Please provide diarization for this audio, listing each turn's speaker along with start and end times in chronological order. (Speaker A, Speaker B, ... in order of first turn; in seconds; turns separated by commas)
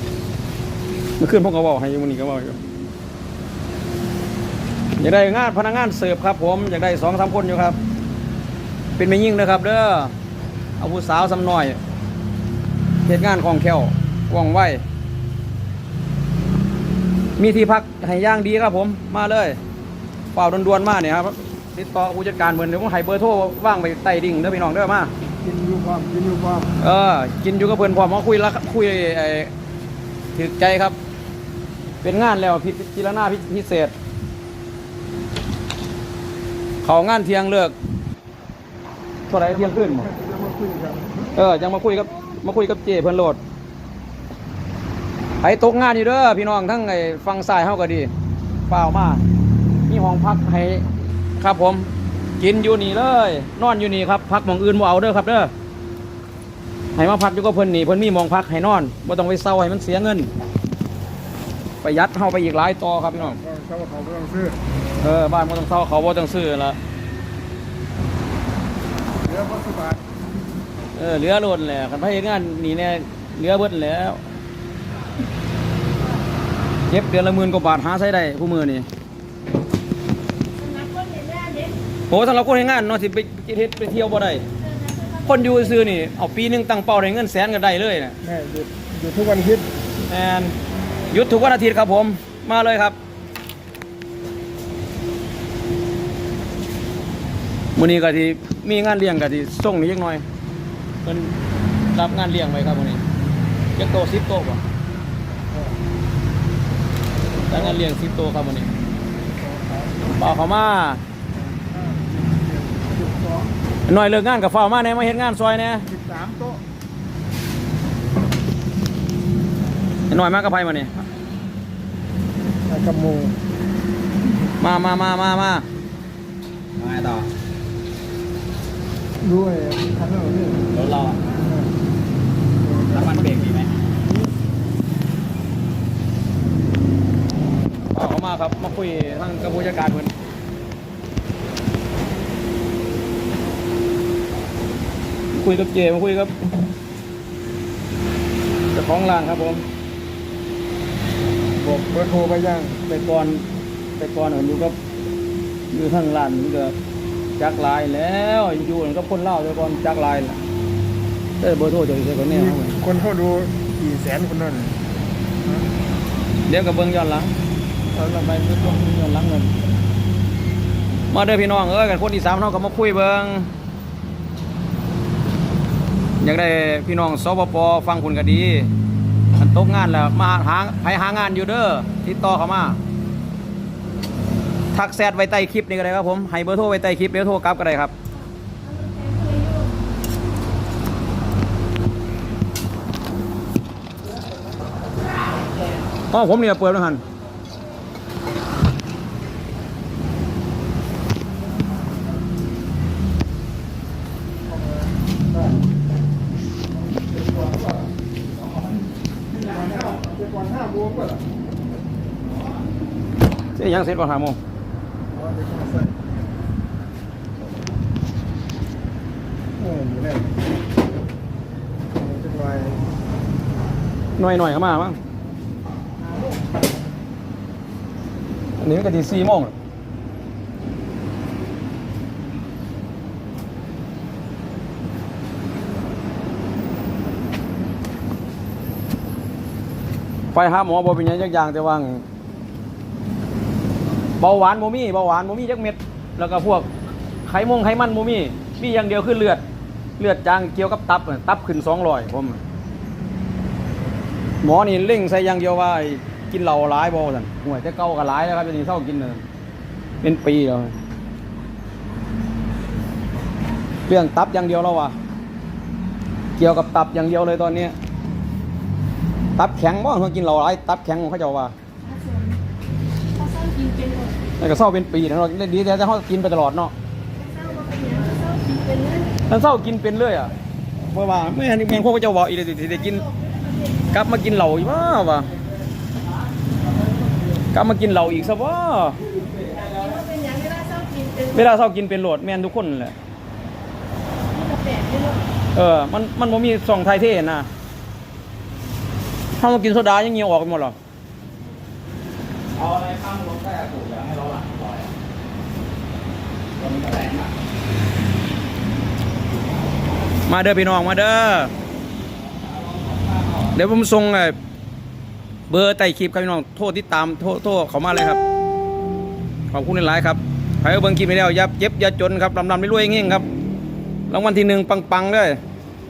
Speaker A: 1.2-2.6, Speaker A: 5.0-7.8, Speaker A: 9.0-10.1, Speaker A: 10.8-11.8, Speaker A: 13.1-14.8, Speaker A: 17.4-19.6, Speaker A: 20.3-25.1, Speaker B: 25.4-26.7, Speaker A: 26.8-29.5, Speaker A: 30.3-30.9, Speaker A: 32.0-33.9, Speaker A: 36.8-37.8, Speaker A: 39.3-40.1, Speaker B: 39.4-41.4, Speaker A: 41.3-43.4, Speaker A: 45.4-48.1, Speaker A: 48.7-49.2, Speaker A: 49.9-50.8, Speaker A: 51.4-55.5, Speaker A: 57.0-60.3, Speaker A: 61.8-63.4, Speaker B: 63.1-64.6, Speaker A: 65.0-66.8, Speaker B: 69.2-70.0, Speaker A: 71.0-74.2, Speaker A: 76.9-78.9, Speaker C: 80.6-81.8, Speaker A: 82.1-84.4, Speaker C: 84.6-86.0, Speaker A: 85.2-88.2, Speaker B: 88.2-89.7, Speaker A: 90.1-90.5, Speaker A: 91.1-93.0, Speaker A: 97.8-100.2, Speaker A: 101.0-101.3, Speaker A: 101.9-103.0, Speaker A: 103.8-104.6, Speaker B: 105.5-105.8, Speaker A: 107.5-108.7, Speaker B: 107.5-107.8, Speaker B: 109.3-110.3, Speaker A: 110.1-111.0, Speaker B: 111.3-113.5, Speaker A: 113.9-115.9, Speaker B: 115.9-116.6, Speaker A: 120.1-121.0, Speaker B: 122.7-123.4, Speaker A: 124.6-125.7, Speaker D: 126.8-127.3, Speaker B: 129.2-130.7, Speaker D: 130.7-131.2, Speaker B: 131.4-131.7, Speaker B: 132.6-134.2, Speaker D: 132.9-133.8, Speaker A: 137.9-140.1, Speaker A: 145.3-146.3, Speaker A: 148.7-149.7, Speaker B: 151.6-152.9, Speaker A: 152.9-153.4, Speaker A: 154.0-154.8, Speaker A: 155.7-156.7, Speaker A: 157.4-160.4, Speaker A: 161.4-162.8, Speaker B: 162.3-164.8, Speaker A: 166.5-167.3, Speaker B: 167.9-168.7, Speaker A: 168.1-169.5, Speaker A: 171.1-173.5, Speaker A: 176.2-178.7, Speaker A: 179.4-182.8, Speaker A: 184.7-187.9, Speaker C: 188.1-189.7, Speaker A: 196.1-197.0, Speaker B: 204.4-205.7, Speaker B: 206.9-207.9, Speaker D: 208.4-208.8, Speaker B: 209.3-211.3, Speaker D: 209.4-209.9, Speaker A: 213.6-214.4, Speaker B: 215.1-216.4, Speaker B: 219.6-220.4, Speaker B: 221.9-222.8, Speaker A: 224.2-225.0, Speaker A: 228.6-229.5, Speaker A: 240.3-242.0, Speaker A: 244.2-246.7, Speaker A: 247.2-249.4, Speaker A: 250.0-252.4, Speaker A: 254.4-259.2, Speaker A: 260.0-260.7, Speaker A: 263.9-264.9, Speaker A: 266.4-267.7, Speaker A: 269.4-271.5, Speaker C: 271.8-272.4, Speaker C: 273.1-274.1, Speaker A: 274.4-276.7, Speaker C: 277.1-279.1, Speaker A: 279.3-280.3, Speaker A: 280.9-283.0, Speaker C: 282.7-284.0, Speaker A: 283.9-285.3, Speaker A: 287.5-289.0, Speaker C: 289.4-291.5, Speaker A: 291.3-292.9, Speaker C: 294.3-295.2, Speaker A: 295.5-297.5, Speaker A: 299.4-300.8, Speaker D: 302.5-304.9, Speaker D: 306.6-307.3, Speaker A: 310.3-311.5, Speaker D: 312.3-313.5, Speaker A: 313.5-314.4, Speaker A: 315.5-318.2, Speaker A: 319.5-323.3, Speaker A: 324.1-325.4